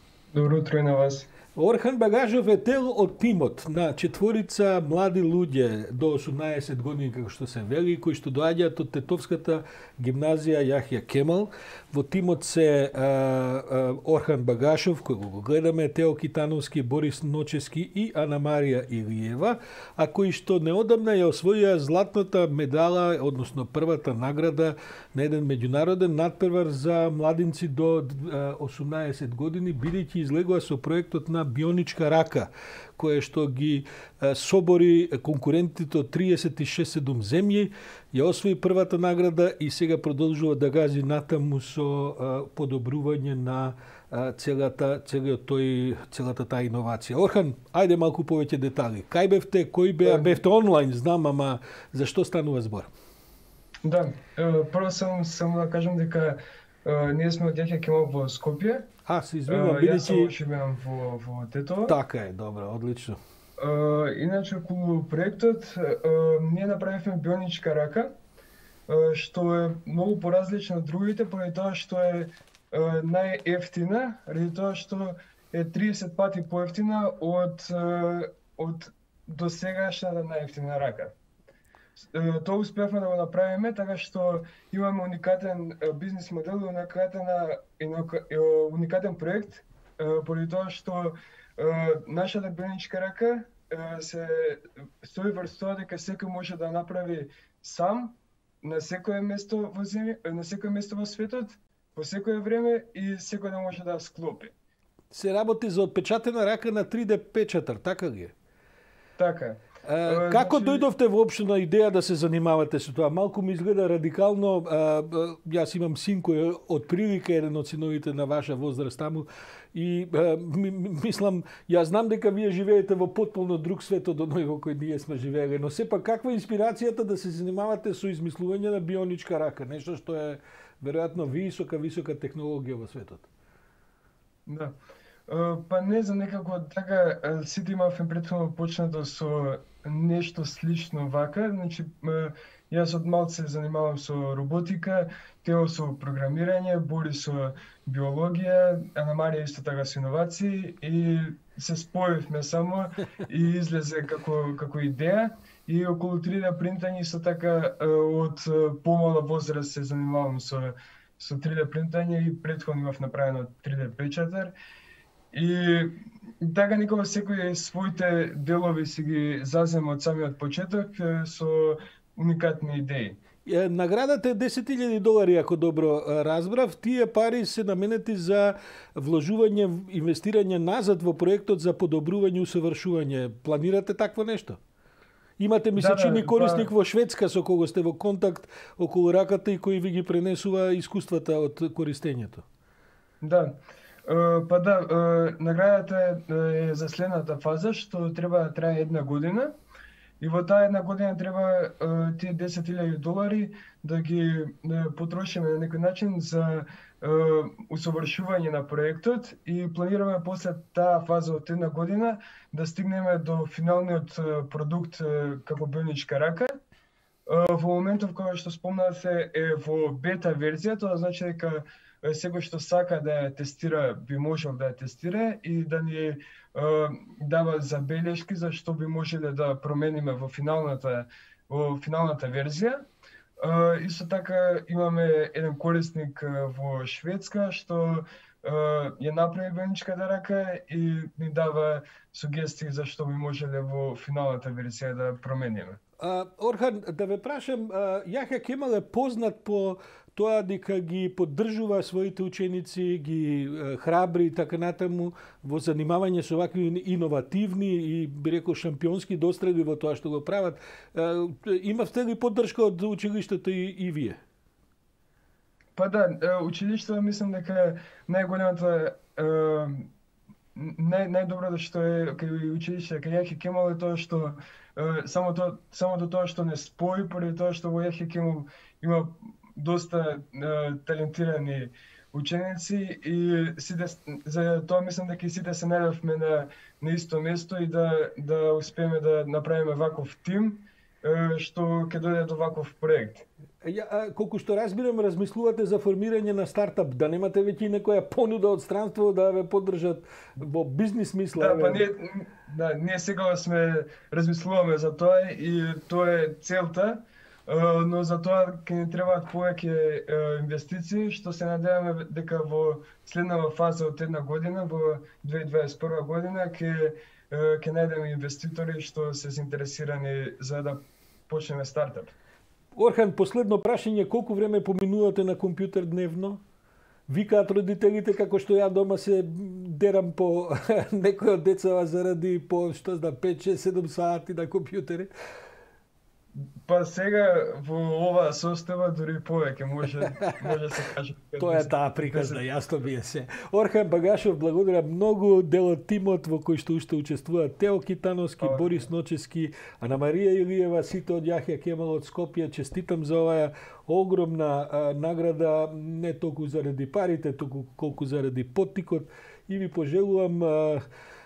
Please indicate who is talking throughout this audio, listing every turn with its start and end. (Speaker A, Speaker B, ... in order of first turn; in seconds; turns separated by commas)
Speaker A: 0.3-1.3, Speaker B: 1.6-52.9, Speaker A: 50.0-50.4, Speaker A: 53.8-58.9, Speaker B: 59.1-60.3, Speaker A: 59.5-62.0, Speaker B: 61.9-63.2, Speaker A: 63.6-68.1, Speaker A: 68.9-81.2, Speaker A: 82.0-104.5, Speaker B: 105.1-108.3, Speaker A: 109.2-110.9, Speaker B: 109.8-133.3, Speaker A: 134.5-134.8, Speaker A: 135.3-164.6, Speaker A: 165.3-173.2, Speaker B: 173.4-184.6, Speaker B: 185.4-192.4, Speaker A: 185.8-186.7, Speaker A: 193.2-199.6, Speaker A: 200.2-216.5, Speaker A: 217.3-232.8, Speaker A: 233.4-245.8, Speaker B: 246.0-264.2, Speaker A: 265.8-269.9, Speaker A: 270.6-293.2, Speaker B: 293.6-301.8, Speaker A: 301.4-322.1, Speaker B: 322.8-326.4, Speaker B: 327.1-335.1, Speaker A: 336.3-342.4, Speaker B: 341.4-360.8, Speaker A: 348.4-348.9